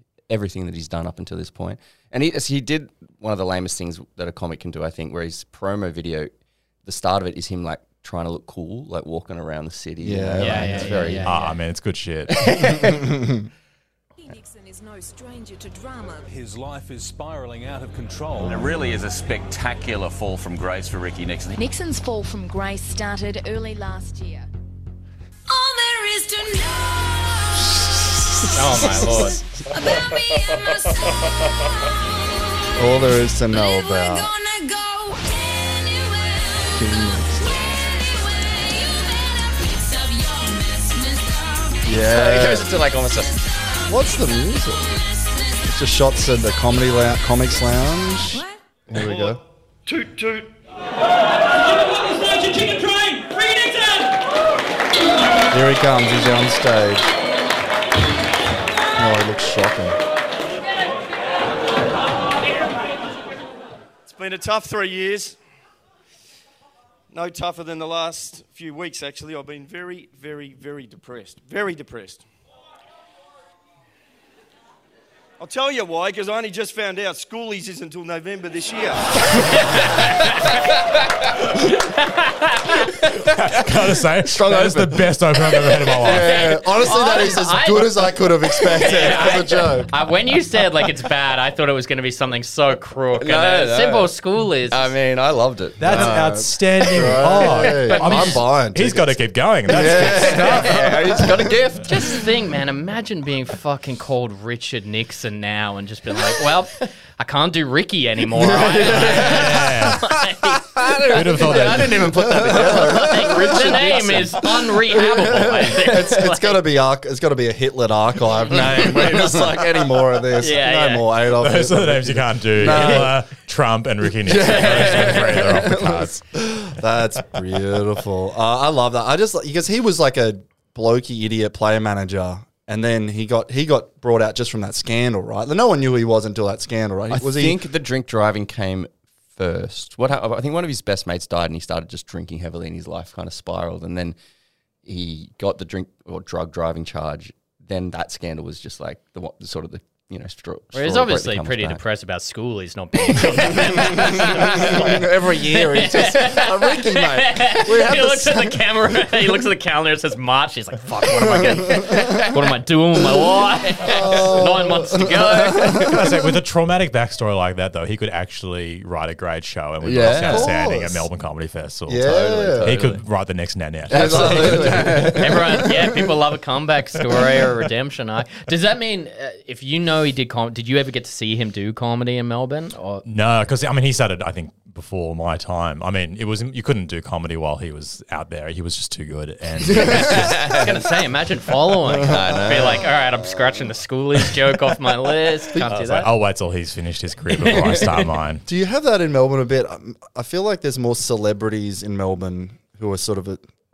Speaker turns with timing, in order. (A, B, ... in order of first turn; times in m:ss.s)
0:00.3-0:06.3 A
0:06.8-0:11.4 A
0:10.0-0:11.2 B
0:10.4-0:11.6 C
0:11.2-0:12.5 D
0:12.3-0:13.1 A
0:12.9-0:13.5 B
0:14.2-0:16.3 E
0:16.3-0:18.9 F
0:18.4-0:21.6 G
0:21.6-0:24.5 E
0:25.5-0:42.2 E
0:28.6-0:29.4 C
0:32.8-0:34.3 B
0:36.7-0:37.7 B
0:41.8-0:42.7 B
0:42.0-0:43.4 A
0:43.5-0:45.7 E
0:43.9-0:44.9 B
0:45.6-0:49.4 B
0:48.3-0:48.6 E
0:48.9-0:50.5 H
0:52.6-0:53.9 H
0:55.5-0:57.1 B
0:59.0-1:00.0 B
1:04.0-1:05.4 H
1:07.1-1:12.2 H
1:15.4-1:19.3 H
1:19.7-1:20.6 C
1:21.8-1:23.0 C
1:23.1-1:26.5 D
1:24.2-1:25.9 A
1:26.0-1:29.9 B
1:26.3-1:34.9 C
1:33.2-1:34.1 A
1:34.7-1:36.4 A
1:35.8-1:41.2 D
1:35.9-1:39.2 B
1:36.9-1:38.4 A
1:39.7-1:41.4 B
1:39.7-1:42.1 A
1:41.9-1:56.6 C
1:48.4-1:49.7 B
1:48.9-1:50.1 D
1:50.7-1:54.5 A
1:51.1-1:52.1 D
1:52.1-1:54.2 B
1:54.9-2:03.2 B
1:58.6-1:59.9 A
2:00.4-2:01.1 C
2:01.3-2:06.2 D
2:04.2-2:17.6 B
2:17.1-2:24.2 A
2:24.8-2:31.8 A
2:30.7-2:45.8 C
2:33.1-2:34.8 A
2:33.9-2:38.6 B
2:41.3-2:42.1 B
2:41.8-2:42.2 A
2:43.8-2:46.0 B
2:45.7-2:55.2 D
2:49.8-2:50.5 A
2:50.0-2:51.0 B
2:51.9-2:52.8 B
2:52.0-2:53.0 A
2:53.9-2:55.6 A
2:53.9-2:56.0 B
2:55.2-3:03.0 C
3:03.0-3:10.6 D
3:09.7-3:10.3 B
3:09.7-3:10.8 A
3:10.5-3:16.1 C
3:11.9-3:12.5 B
3:12.0-3:12.9 A
3:15.7-3:18.4 D
3:17.5-3:17.9 C
3:18.5-3:23.4 B